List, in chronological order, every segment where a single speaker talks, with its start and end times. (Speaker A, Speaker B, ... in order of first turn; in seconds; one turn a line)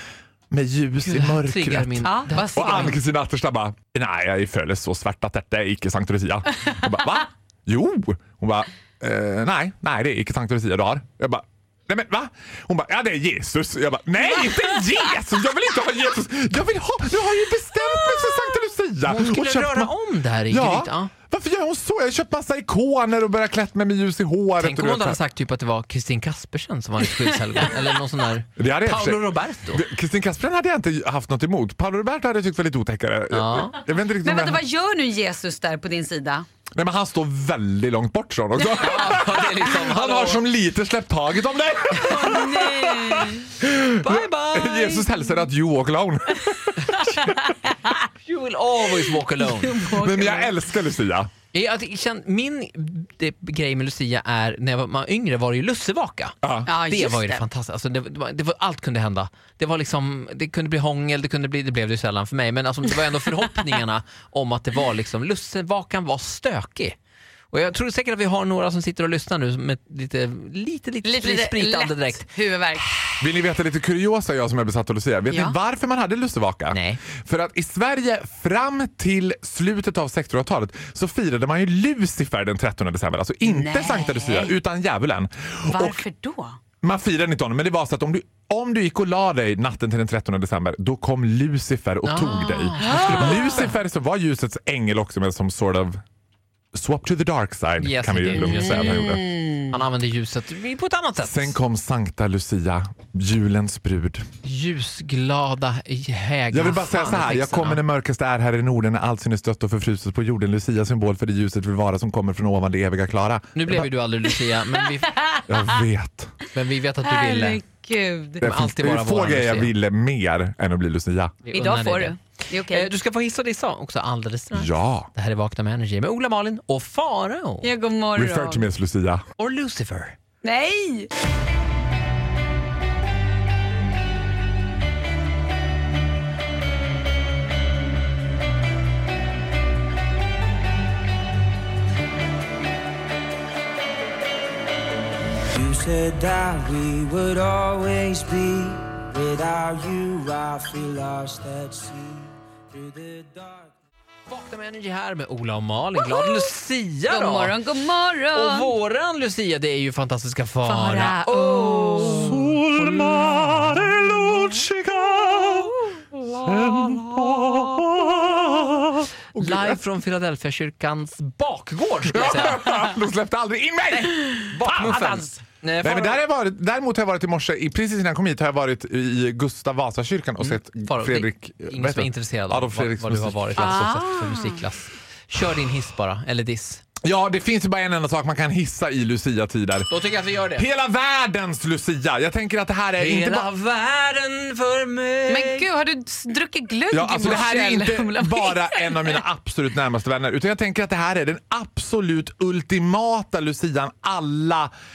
Speaker A: 0.5-19.9
Speaker B: 1.0-3.0
Speaker C: 2.0-3.0
Speaker B: 19.0-21.1
Speaker A: 20.5-25.2
Speaker B: 24.6-29.9
Speaker A: 28.6-34.6
Speaker B: 33.3-33.8
Speaker C: 34.2-36.5
Speaker A: 36.8-47.3
Speaker B: 38.7-40.4
Speaker C: 42.0-43.4
Speaker B: 44.0-45.0
Speaker B: 48.2-49.8
Speaker C: 49.4-50.5
Speaker A: 49.9-51.3
Speaker B: 51.5-67.0
Speaker A: 56.4-56.7
Speaker C: 56.6-57.4
Speaker B: 67.5-72.3
Speaker C: 71.0-72.8
Speaker A: 73.2-86.0
Speaker C: 75.3-75.5
Speaker B: 76.7-77.0
Speaker C: 83.5-84.5
Speaker C: 85.7-86.6
Speaker A: 86.8-96.0
Speaker B: 92.0-93.7
Speaker C: 92.8-93.3
Speaker A: 96.7-99.2
Speaker B: 97.8-101.5
Speaker C: 98.8-99.6
Speaker A: 101.2-104.2
Speaker B: 104.4-107.8
Speaker A: 106.5-113.9
Speaker B: 113.5-115.4
Speaker A: 115.5-116.3
Speaker B: 116.5-117.6
Speaker C: 117.0-118.4
Speaker B: 118.4-119.7
Speaker A: 118.4-121.3
Speaker B: 121.4-122.2
Speaker C: 121.5-122.9
Speaker B: 122.7-127.7
Speaker A: 124.5-125.1
Speaker C: 127.6-128.7
Speaker A: 128.1-129.2
Speaker B: 129.4-130.2
Speaker C: 130.4-131.1
Speaker D: 145.5-153.7
Speaker B: 154.3-157.6
Speaker C: 157.1-158.7
Speaker B: 158.3-163.9
Speaker C: 160.6-162.3
Speaker A: 162.0-165.7
Speaker B: 166.2-168.4
Speaker A: 166.3-169.8
Speaker B: 169.3-172.9
Speaker A: 172.1-175.2
Speaker C: 174.2-175.4
Speaker B: 174.5-176.2
Speaker A: 175.8-184.1
Speaker B: 180.4-186.8
Speaker C: 183.6-184.6
Speaker A: 187.0-189.9
Speaker B: 189.9-190.7
Speaker A: 190.5-193.5
Speaker B: 193.0-195.7
Speaker C: 195.3-199.2
Speaker A: 196.9-204.7